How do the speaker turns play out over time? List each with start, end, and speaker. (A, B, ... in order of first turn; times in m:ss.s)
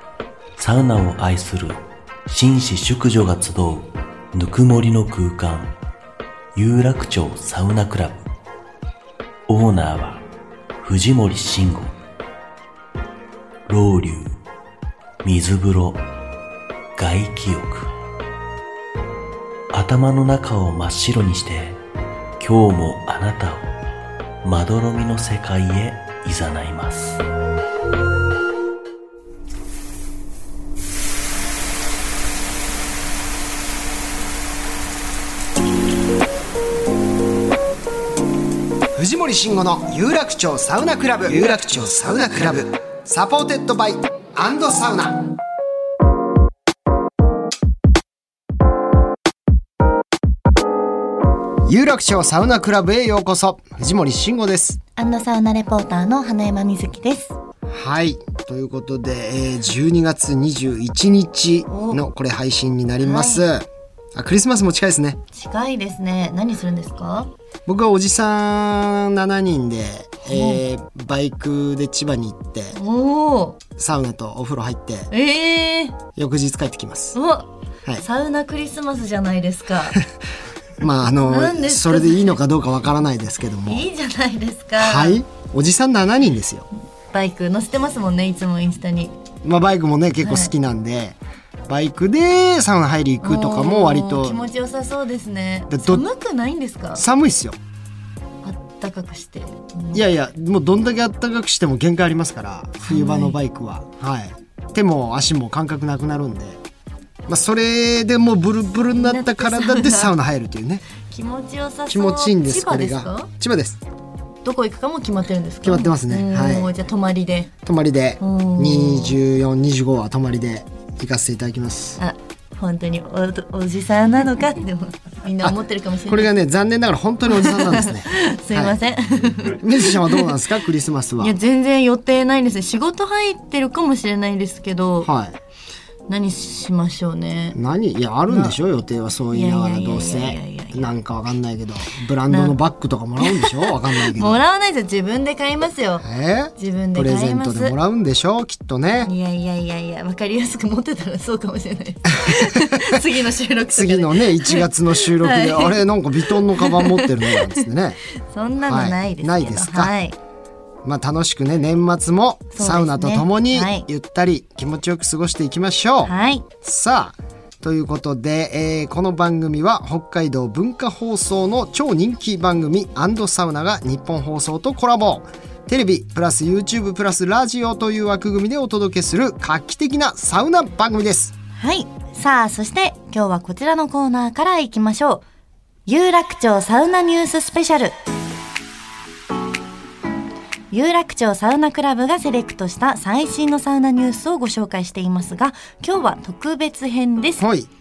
0:00.6-0:05.8 A
0:06.6-0:08.2 A
0:09.5-0:10.2 A
0:10.8-0:12.0 A
0:13.7-0:14.4 A
0:15.2-0:16.0 A
0:17.0-0:17.9 A
0:19.7-0:21.8 A
0:22.4-0:23.7 A
0:24.4-0:27.2 A
0:39.0-0:45.3 B
0:51.6-0:54.8 B
0:55.0-0:57.4 C
0:57.7-1:05.2 B
1:01.7-1:02.0 C
1:03.0-1:03.5 C
1:05.3-1:07.3 C
1:07.7-1:12.8 B
1:10.2-1:10.6 C
1:12.7-1:13.6 C
1:13.8-1:15.1 B
1:15.1-1:16.0 C
1:16.2-1:17.2 B
1:17.1-1:20.0 C
1:20.8-1:23.9 B
1:21.2-1:22.4 C
1:23.7-1:25.2 C
1:24.8-1:26.7 B
1:27.1-1:29.1 C
1:29.4-1:34.4 B
1:30.2-1:30.5 C
1:33.2-1:37.0 C
1:35.7-1:36.1 B
1:37.0-1:37.6 B
1:38.4-1:40.0 C
1:39.9-1:46.6 B
1:42.8-1:43.4 C
1:47.3-1:50.8 B
1:48.9-1:50.1 C
1:51.1-1:53.3 C
1:51.9-1:53.8 B
1:54.4-1:57.5 C
1:55.6-1:56.7 B
1:57.6-2:02.0 B
1:58.2-1:59.2 C
2:02.0-2:06.4 C
2:06.1-2:08.8 B
2:07.3-2:10.3 C
2:09.6-2:11.4 B
2:11.2-2:15.1 C
2:15.0-2:15.4 B
2:16.1-2:17.6 C
2:17.5-2:24.4 B
2:18.3-2:18.6 C
2:19.3-2:20.9 C
2:22.3-2:22.6 C
2:23.2-2:26.0 C
2:26.0-2:29.1 B
2:26.6-2:27.8 C
2:29.0-2:37.6 C
2:32.2-2:33.0 B
2:33.7-2:38.0 B
2:38.2-2:40.2 C
2:38.6-2:39.9 B
2:40.8-3:01.3 B
2:42.5-2:43.9 C
2:46.0-2:46.4 C
3:01.6-3:05.2 C
3:05.9-3:08.0 C
3:10.7-3:17.4 C
3:17.4-3:17.7 B